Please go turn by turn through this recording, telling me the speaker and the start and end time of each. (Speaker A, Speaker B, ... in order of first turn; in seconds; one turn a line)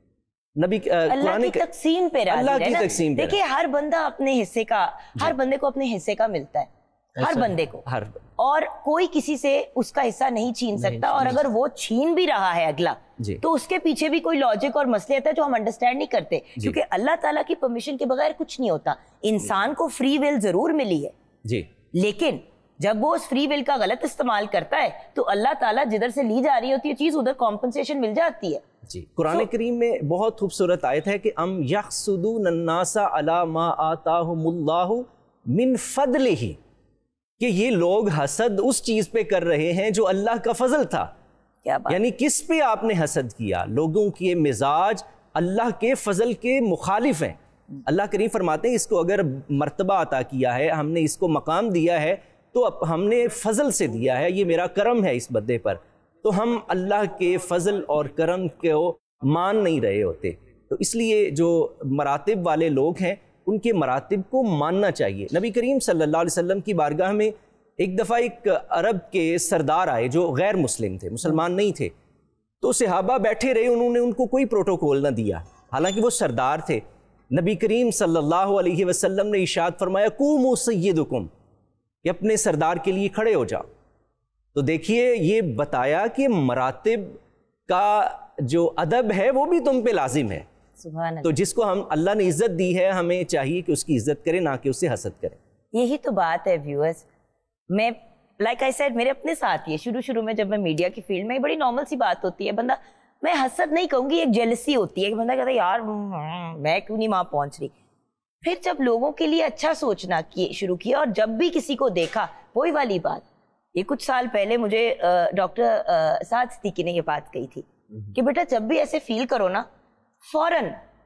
Speaker A: 0.6-1.6
Speaker B: 1.1-6.7
Speaker A: 2.3-3.4
Speaker A: 7.2-8.2
Speaker B: 7.2-7.8
Speaker B: 8.4-21.1
Speaker A: 10.9-11.4
Speaker B: 21.9-28.6
Speaker A: 28.9-36.6
Speaker A: 37.4-41.1
Speaker B: 41.6-42.0
Speaker A: 41.9-71.9
Speaker A: 72.6-81.3
Speaker A: 82.0-83.7
Speaker A: 84.5-90.5
Speaker B: 90.8-91.4
Speaker A: 91.2-95.4
Speaker B: 95.7-97.1
Speaker B: 97.7-107.7
Speaker B: 108.4-113.2
Speaker B: 113.8-119.7
Speaker B: 120.3-120.8